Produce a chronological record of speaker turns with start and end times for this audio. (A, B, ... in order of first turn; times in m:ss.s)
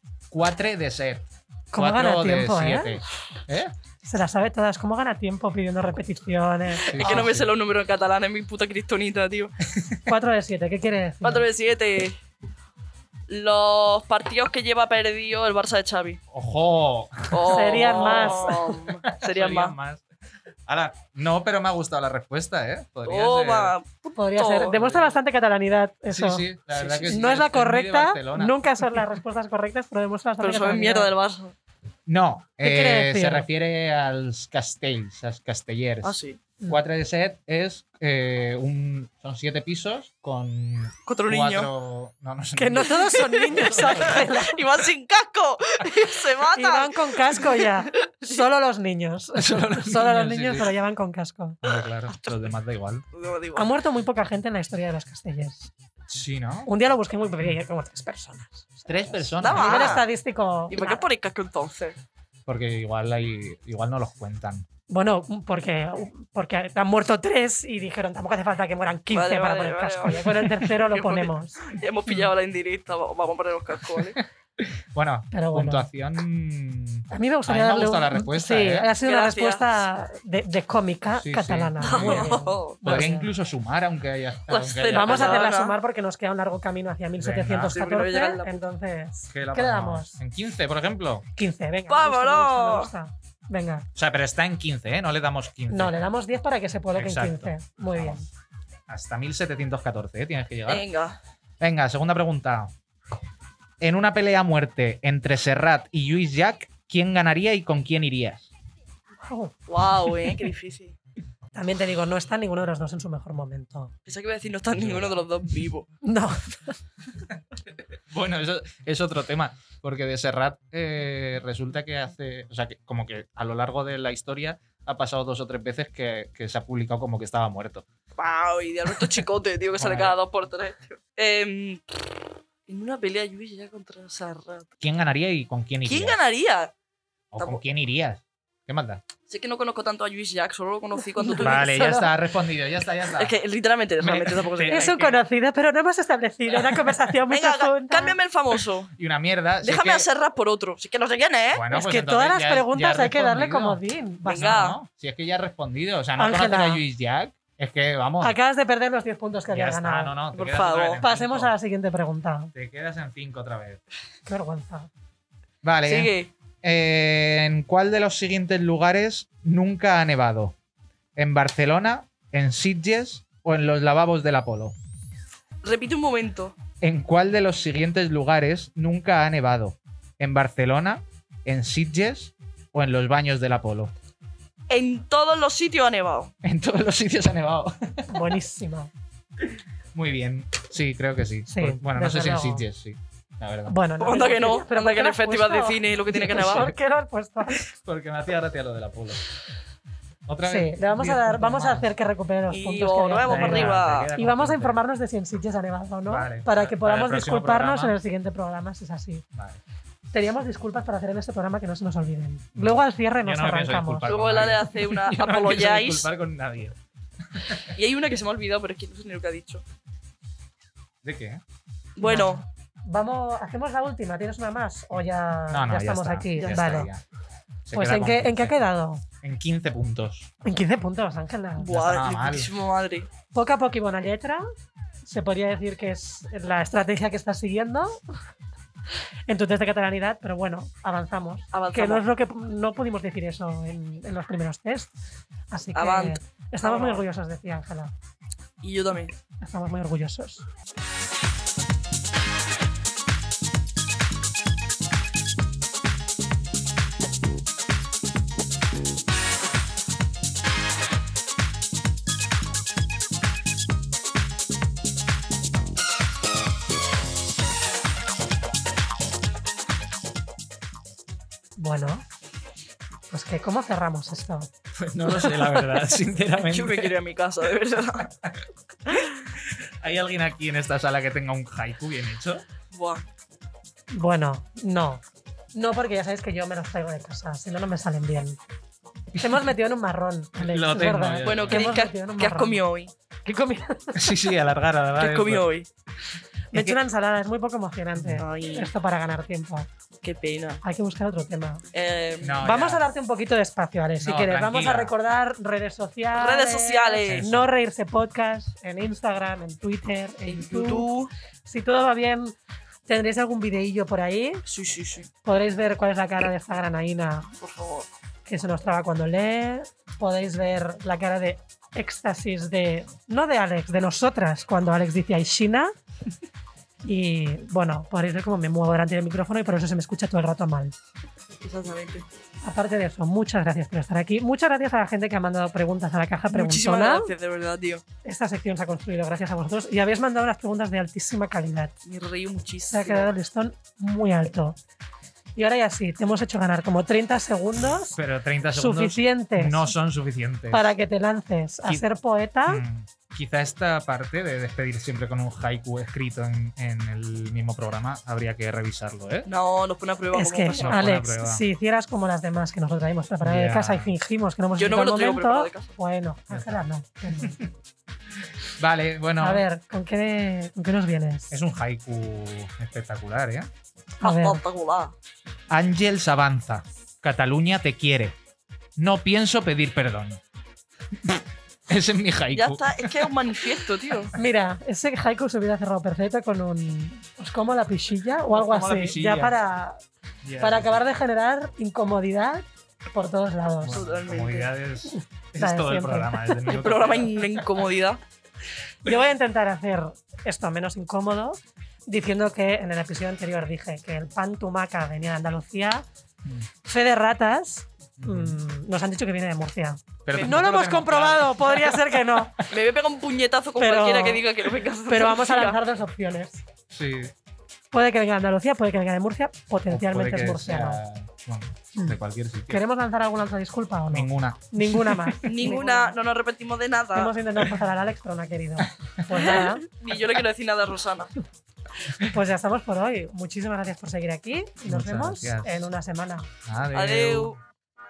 0:00.3-0:03.7 A
0:01.7-0:03.0 B
0:04.0-0:07.3 B
0:06.8-0:09.5 C
0:06.9-0:07.5 A
0:09.7-0:10.0 A
0:10.0-0:11.5 B
0:11.2-0:12.2 C
0:13.3-0:16.2 C
0:16.3-0:20.0 A
0:17.3-0:19.7 C
0:17.4-0:18.6 B
0:20.7-0:23.7 A
0:23.0-0:25.0 C
0:24.2-0:26.5 B
0:26.1-0:28.6 A
0:26.7-0:27.3 C
0:27.1-0:31.1 B
0:30.4-0:31.5 C
0:32.0-0:44.3 A
0:32.6-0:33.5 B
0:36.0-0:36.4 C
0:41.0-0:41.7 C
0:42.6-0:44.6 B
0:43.1-0:48.4 C
0:46.5-0:51.6 B
0:49.3-0:50.7 A
0:51.6-0:53.0 A
0:52.1-0:52.4 C
0:53.1-0:53.7 C
0:53.5-0:55.7 B
0:56.1-0:56.7 A
0:56.6-1:01.0 B
0:58.9-1:00.0 A
0:59.4-1:00.1 C
1:00.7-1:02.0 C
1:02.5-1:04.7 A
1:04.9-1:11.6 B
1:09.1-1:14.2 C
1:14.6-1:18.9 A
1:15.3-1:15.9 B
1:17.1-1:23.3 B
1:19.0-1:19.8 C
1:21.2-1:25.5 A
1:21.8-1:23.0 C
1:24.5-1:25.7 C
1:24.9-1:30.2 B
1:27.2-1:27.8 A
1:27.7-1:28.6 C
1:29.3-1:31.2 A
1:31.4-1:33.8 B
1:31.9-1:32.9 C
1:33.9-1:36.0 A
1:35.7-1:38.3 B
1:36.9-1:38.2 A
1:38.9-1:40.8 A
1:40.7-1:41.2 C
1:41.6-1:42.7 A
1:43.8-1:48.5 A
1:49.2-1:50.1 B
1:49.7-1:50.9 C
1:51.5-1:53.9 B
1:54.0-1:55.9 C
1:54.7-1:55.2 A
1:56.0-1:56.8 B
1:58.0-2:07.8 A
2:08.2-2:12.1 C
2:09.7-2:10.2 A
2:12.7-2:14.7 C
2:14.8-2:16.2 A
2:15.8-2:16.7 C
2:17.3-2:19.0 A
2:19.3-2:21.7 C
2:21.1-2:22.1 B
2:21.4-2:23.3 A
2:23.1-2:25.0 C
2:24.0-2:25.2 A
2:24.7-2:28.2 B
2:27.3-2:28.9 C
2:29.0-2:30.1 A
2:29.6-2:31.6 C
2:31.5-2:33.8 A
2:31.7-2:34.7 B
2:34.2-2:34.8 C
2:34.4-2:38.3 A
2:36.2-2:36.8 B
2:38.2-2:40.2 B
2:39.5-2:41.5 A
2:40.3-2:41.0 C
2:41.0-2:42.5 B
2:42.5-2:43.8 A
2:44.2-2:44.9 B
2:45.6-2:50.5 A
2:45.9-2:46.3 C
2:51.2-2:54.7 A
2:55.6-2:56.5 C
2:56.8-3:03.9 A
3:04.7-3:06.3 C
3:06.4-3:08.2 A
3:08.1-3:08.9 B
3:09.5-3:13.8 A
3:11.5-3:12.6 B
3:13.7-3:17.7 B
3:14.0-3:16.7 C
3:16.4-3:16.7 A
3:17.5-3:19.2 A
3:20.3-3:21.8 A
3:20.4-3:29.2 B
3:22.5-3:24.1 C
3:23.2-3:24.8 A
3:26.1-3:28.0 A
3:29.3-3:29.6 A
3:30.1-3:34.1 B
3:32.6-3:36.8 A
3:34.0-3:36.1 C
3:37.3-3:37.7 A
3:37.7-3:39.6 C
3:41.0-3:41.4 A
3:42.0-3:42.4 C
3:42.0-3:46.9 B
3:45.5-3:47.0 A
3:46.4-3:46.8 C
3:47.7-3:48.6 A
3:47.7-3:49.0 B
3:49.2-3:50.3 A
3:50.4-3:51.7 B
3:51.6-3:53.1 C
3:51.7-3:52.5 A
3:53.3-3:54.4 B
3:55.0-3:58.2 B
3:59.3-4:04.9 B
4:01.5-4:02.0 C
4:05.5-4:07.9 B
4:05.7-4:07.0 C
4:08.6-4:09.1 C
4:09.4-4:10.4 B
4:31.6-4:32.0 B
4:33.1-4:34.5 B
4:34.7-4:36.9 A
4:35.0-4:35.9 B
4:36.4-4:38.1 C
4:38.2-4:42.4 A
4:42.7-4:43.0 C
4:43.9-4:45.0 B
4:45.5-4:48.4 B
4:49.1-4:52.6 B
4:50.4-4:51.8 A
4:51.2-4:52.9 C
4:53.2-4:54.2 B
4:53.9-4:55.5 A
4:55.0-4:55.7 C
4:56.5-4:59.7 B
4:58.0-4:58.2 A
4:58.2-4:58.7 C
5:00.0-5:00.6 C
5:00.6-5:01.6 B
5:01.7-5:02.4 C
5:02.2-5:02.9 A
5:02.4-5:10.9 B
5:04.0-5:04.9 A
5:06.2-5:07.2 C
5:07.0-5:07.5 A
5:10.3-5:11.1 C
5:11.4-5:12.4 B
5:12.9-5:14.4 B
5:14.4-5:15.1 C
5:15.2-5:17.3 B
5:17.4-5:17.9 C
5:18.2-5:25.7 B
5:26.8-5:30.7 B
5:31.4-5:32.0 C
5:32.4-5:37.1 B
5:36.3-5:37.8 C
5:38.0-5:41.7 B
5:41.8-5:43.1 C
5:42.7-5:44.6 B
5:45.4-5:48.0 B
5:47.9-5:50.7 A
5:48.5-5:49.7 B
5:50.5-5:52.6 B
5:52.5-5:59.3 A
5:59.2-6:00.8 C
6:00.1-6:07.4 B
6:00.6-6:01.4 A
6:03.2-6:03.9 A
6:04.6-6:05.7 C
6:06.3-6:07.5 A
6:08.3-6:09.4 A
6:09.2-6:11.4 B
6:11.3-6:13.5 A
6:14.0-6:14.4 B
6:14.0-6:14.9 C
6:15.5-6:18.1 A
6:18.8-6:20.2 A
6:21.0-6:23.2 A
6:22.3-6:24.1 C
6:24.1-6:29.8 B
6:28.3-6:29.3 A
6:30.2-6:30.8 A
6:30.4-6:33.8 B
6:33.6-6:37.6 A
6:33.7-6:34.5 C
6:34.8-6:36.3 B
6:36.4-6:38.0 C
6:38.8-6:45.8 B
6:46.6-6:52.5 B
6:48.0-6:48.4 A
6:50.0-6:52.2 A
6:50.1-6:50.4 C
6:52.5-6:55.6 C
6:53.6-6:54.2 B
6:54.9-6:56.4 B
6:56.7-6:57.1 A
6:57.7-7:00.8 B
6:59.7-7:02.6 A
7:02.5-7:06.0 B
7:03.9-7:05.2 A
7:05.2-7:07.1 C
7:06.9-7:09.6 B
7:09.3-7:11.2 C
7:12.0-7:16.3 B
7:14.6-7:15.7 A
7:16.4-7:17.4 A
7:16.7-7:17.4 C